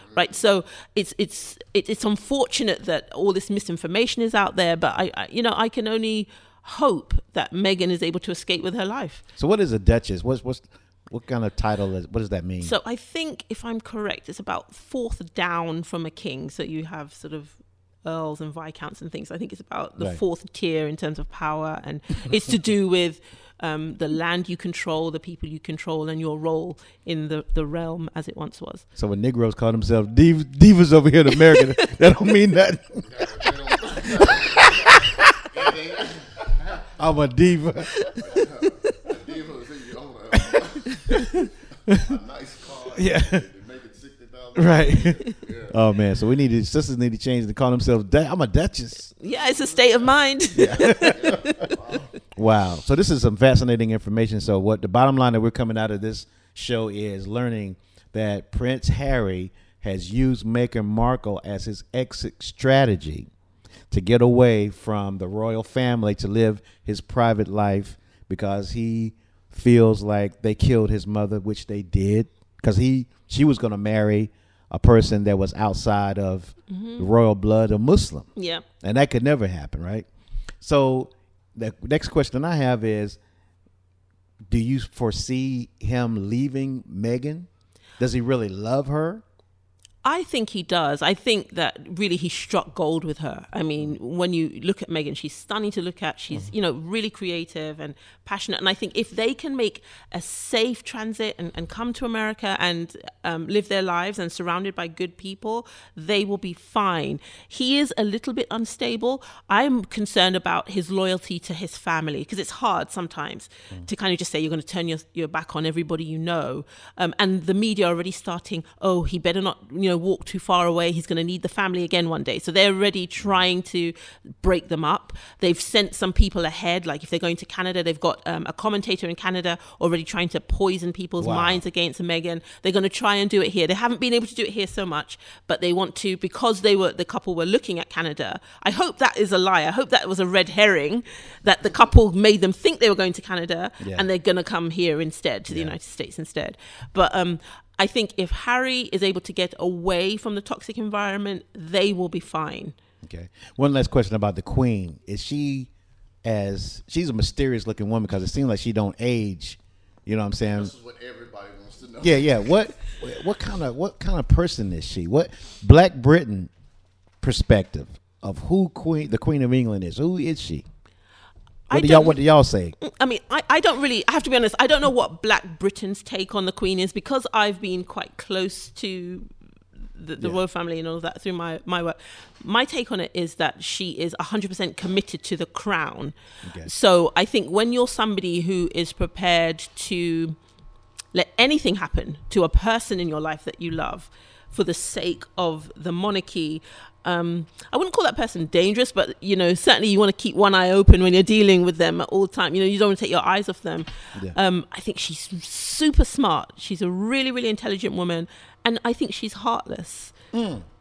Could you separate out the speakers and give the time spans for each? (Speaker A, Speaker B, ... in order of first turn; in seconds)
Speaker A: 0.1-9.2, 12.6-28.8, 49.2-51.7, 76.7-77.0, 78.3-78.6, 90.0-152.7, 171.7-172.2, 172.8-179.3, 180.0-190.4, 191.1-210.1
Speaker B: 9.4-12.7, 28.9-35.3, 37.0-38.5, 40.4-41.3, 42.9-43.5, 44.5-49.1, 50.5-51.4, 52.3-63.3, 63.9-80.1, 80.6-83.2, 84.5-87.5, 88.0-89.2, 131.2-131.6, 143.8-144.1, 145.5-145.7, 153.0-155.7, 156.2-160.7, 162.0-166.5, 167.2-170.6, 171.7-172.8, 186.4-186.7, 210.3-210.7
Speaker C: 33.1-36.9, 38.2-45.8, 50.9-52.0, 160.5-162.6